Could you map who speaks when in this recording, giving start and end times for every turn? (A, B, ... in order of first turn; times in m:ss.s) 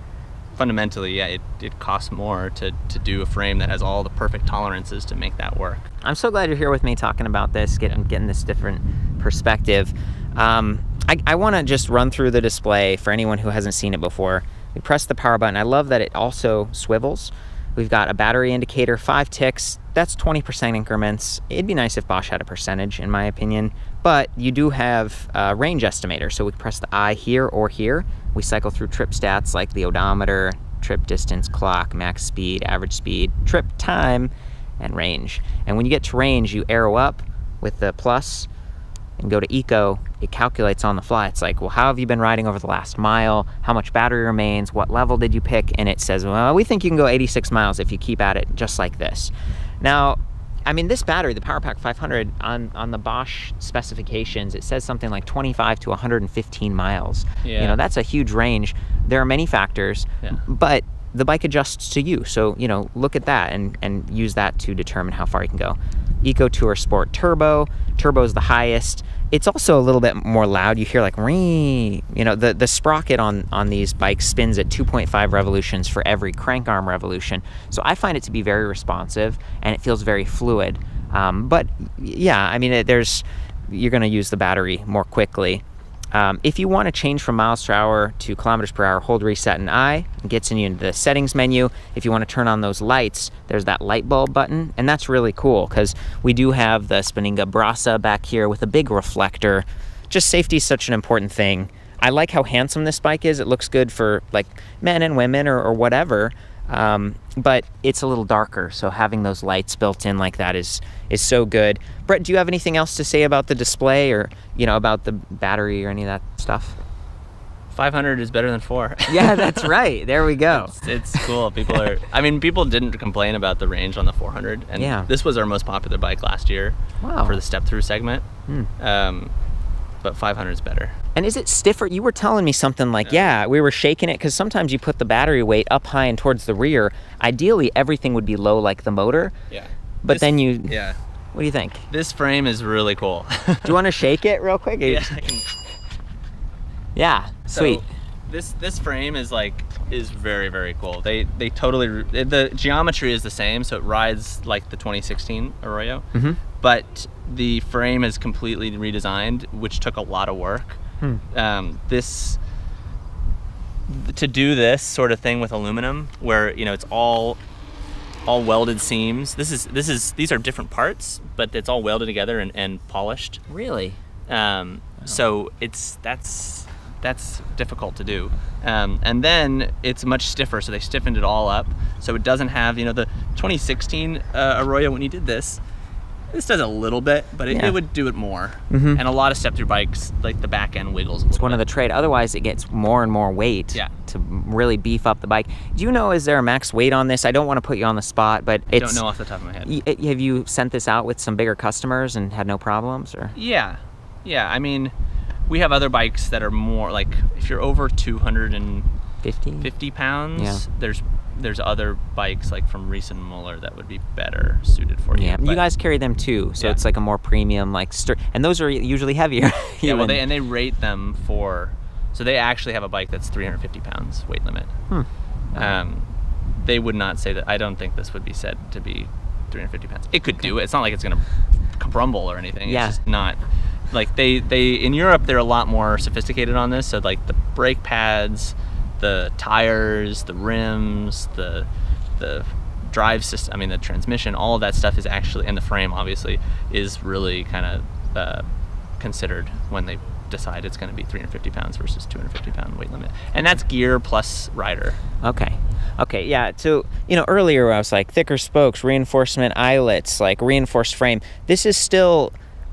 0:00.6-0:05.9 A
0:06.0-0:38.5 B
0:39.2-1:56.8 B
0:57.4-0:57.8 A
1:57.7-1:59.7 A
1:59.1-2:01.8 B
2:00.5-2:08.3 A
2:04.8-2:05.1 B
2:07.0-2:07.4 B
2:08.8-2:09.3 A
2:10.0-2:11.0 A
2:11.2-2:19.3 B
2:19.5-2:21.0 A
2:20.0-2:20.8 B
2:21.3-2:21.8 B
2:21.9-2:23.8 A
2:23.6-2:25.2 B
2:24.8-2:25.5 A
2:27.0-2:27.8 B
2:27.5-2:36.1 A
2:36.1-2:36.4 B
2:36.6-2:40.8 A
2:41.3-2:42.4 A
2:43.9-2:47.4 A
2:48.3-2:53.4 A
2:53.5-2:54.0 B
2:54.3-3:05.6 A
3:06.3-3:11.6 A
3:07.5-3:07.8 B
3:08.7-3:09.0 B
3:11.3-3:19.0 B
3:18.7-3:19.7 A
3:19.6-3:23.4 B
3:23.4-3:24.9 A
3:25.5-3:28.9 A
3:29.2-3:29.7 B
3:29.6-3:35.6 A
3:30.4-3:30.6 B
3:35.1-3:40.2 B
3:39.8-3:44.7 A
3:44.9-3:45.8 B
3:45.5-3:51.2 A
3:51.8-3:53.4 A
3:52.7-3:53.0 B
3:53.9-4:01.7 A
4:02.2-4:08.5 A
4:09.0-4:15.0 A
4:15.2-4:22.3 B